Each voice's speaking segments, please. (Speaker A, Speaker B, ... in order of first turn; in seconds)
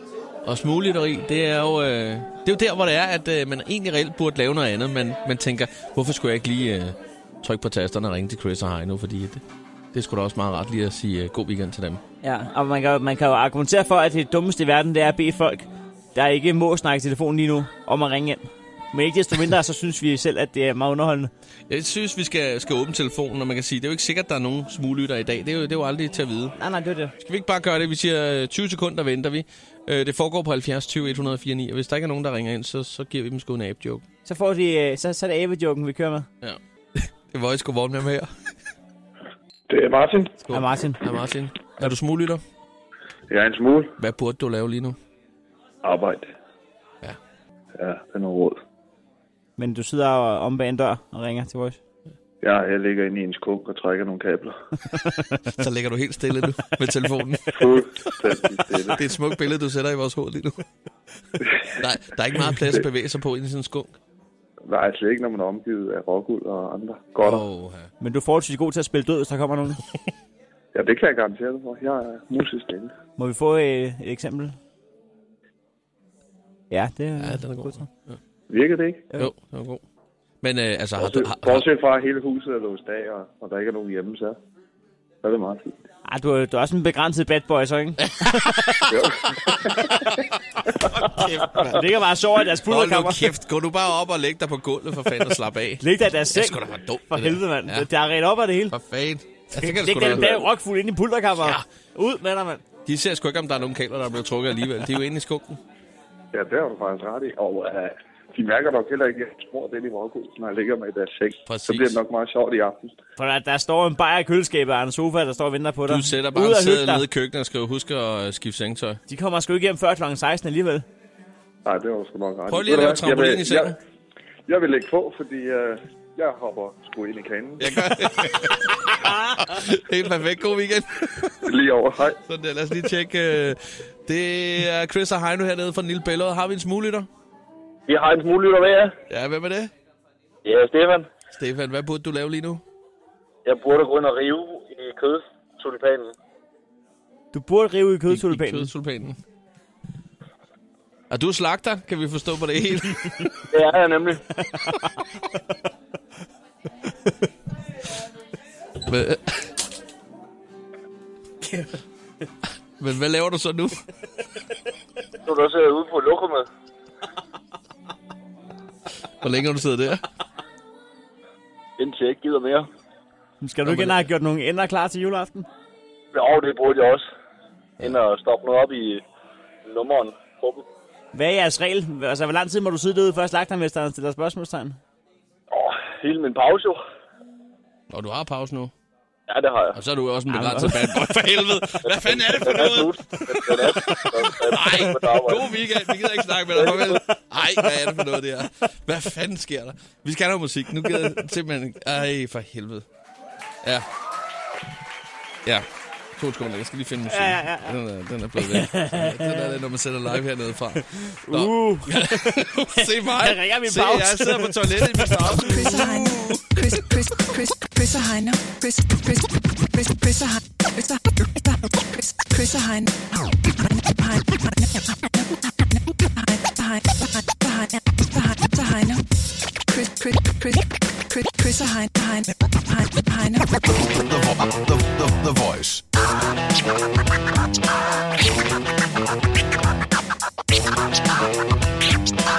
Speaker A: 0.4-12.0, 21.7-26.6, 27.2-34.0, 36.4-38.3, 40.4-42.4, 44.0-45.0, 55.5-58.1, 58.8-60.6, 61.6-64.0, 67.2-67.9, 77.2-78.2, 79.2-79.8, 80.4-81.6, 88.0-91.8, 92.6-97.9, 98.7-100.4, 101.4-101.6, 102.8-105.6, 111.5-112.0, 115.9-119.0, 122.5-123.8, 127.6-131.4, 132.2-137.1, 139.1-139.7, 141.3-142.6, 148.1-149.2, 151.1-153.4, 158.8-159.5, 162.8-163.8, 169.2-170.0, 173.6-174.1, 187.9-188.7, 189.7-202.8, 205.4-216.8
Speaker B: 12.2-21.3, 26.6-27.1, 34.2-36.3, 40.5-41.0, 49.6-51.8, 68.0-69.8, 73.2-74.5, 76.7-77.8, 86.1-88.6, 91.2-93.3, 95.8-98.7, 99.6-102.6, 113.2-117.0, 119.1-120.8, 147.3-148.7, 173.4-175.5, 181.1-184.8, 190.3-191.0, 207.1-207.8, 208.4-209.6, 211.2-215.5
Speaker C: 39.7-40.4, 43.3-43.9, 45.8-46.3, 47.8-48.6, 52.4-54.9, 57.5-59.0, 64.7-67.5, 70.7-72.9, 78.5-79.1, 81.0-84.4, 85.2-85.8, 88.9-90.2, 106.3-112.9, 121.6-123.7, 124.5-127.7, 131.4-132.2
Speaker D: 137.9-138.9, 140.4-141.1, 143.4-146.1, 153.5-154.2, 165.2-166.5, 171.8-172.7, 176.1-177.0, 177.8-179.0, 179.6-180.6, 185.5-186.8, 189.3-189.8, 191.8-195.4, 196.6-196.9
Speaker E: 215.5-223.1, 223.6-229.0, 229.7-233.5
Speaker F: 233.7-235.8